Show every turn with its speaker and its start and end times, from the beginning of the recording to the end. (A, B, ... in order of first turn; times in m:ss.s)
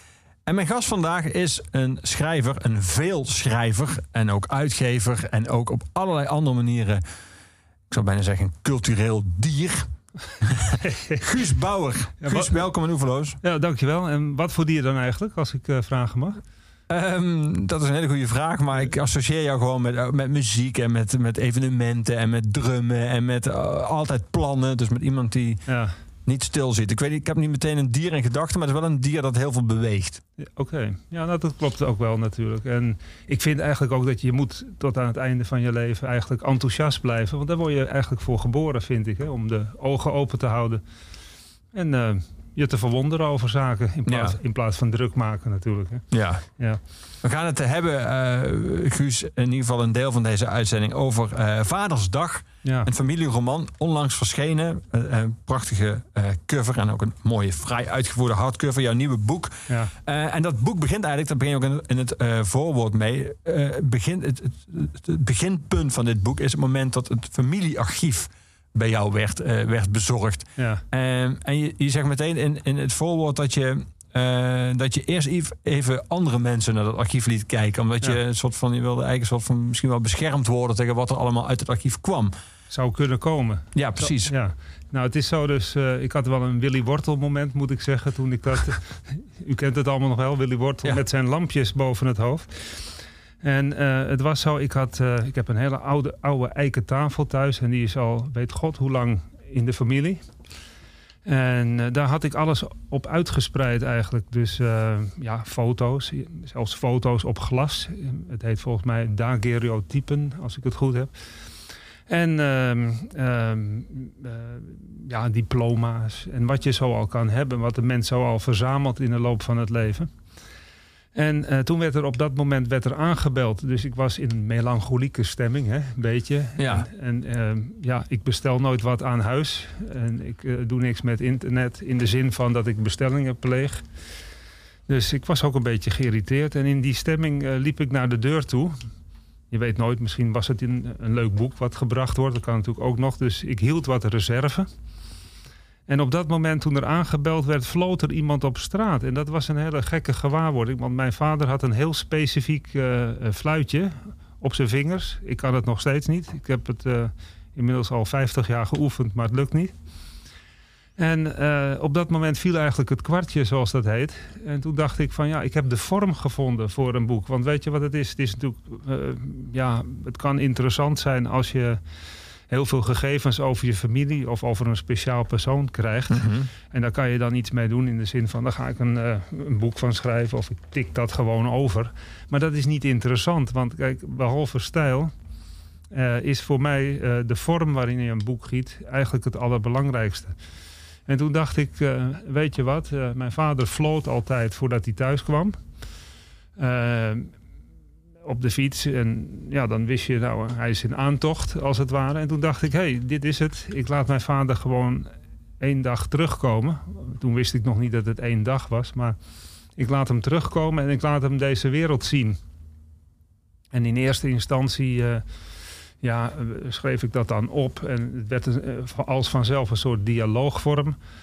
0:00.4-0:07.0 A
0:07.9-0:09.9 A
0:10.4-0:13.4 A
0:10.7-0:11.2 B
0:12.2-0:12.6 B
0:13.4-0:16.4 B
0:16.9-0:25.7 A
0:25.7-0:25.9 B
0:26.2-0:30.2 A
0:30.4-0:40.8 B
0:41.7-0:46.0 B
0:44.1-0:44.4 A
0:46.1-0:46.4 A
0:47.2-1:22.3 A
1:10.6-1:10.8 B
1:22.7-1:40.2 B
1:23.7-1:24.3 A
1:41.2-1:51.1 B
1:52.1-2:00.1 B
2:01.2-2:13.8 B
2:06.6-2:06.8 A
2:14.9-2:18.8 B
2:19.5-2:24.7 B
2:25.9-2:39.7 B
2:41.0-2:51.8 B
2:52.5-3:05.1 B
2:56.1-2:56.5 A
3:05.9-3:10.3 B
3:11.1-3:15.6 B
3:16.6-3:17.3 B
3:18.2-3:29.2 B
3:29.8-3:32.4 B
3:33.7-3:35.2 B
3:36.0-3:41.0 B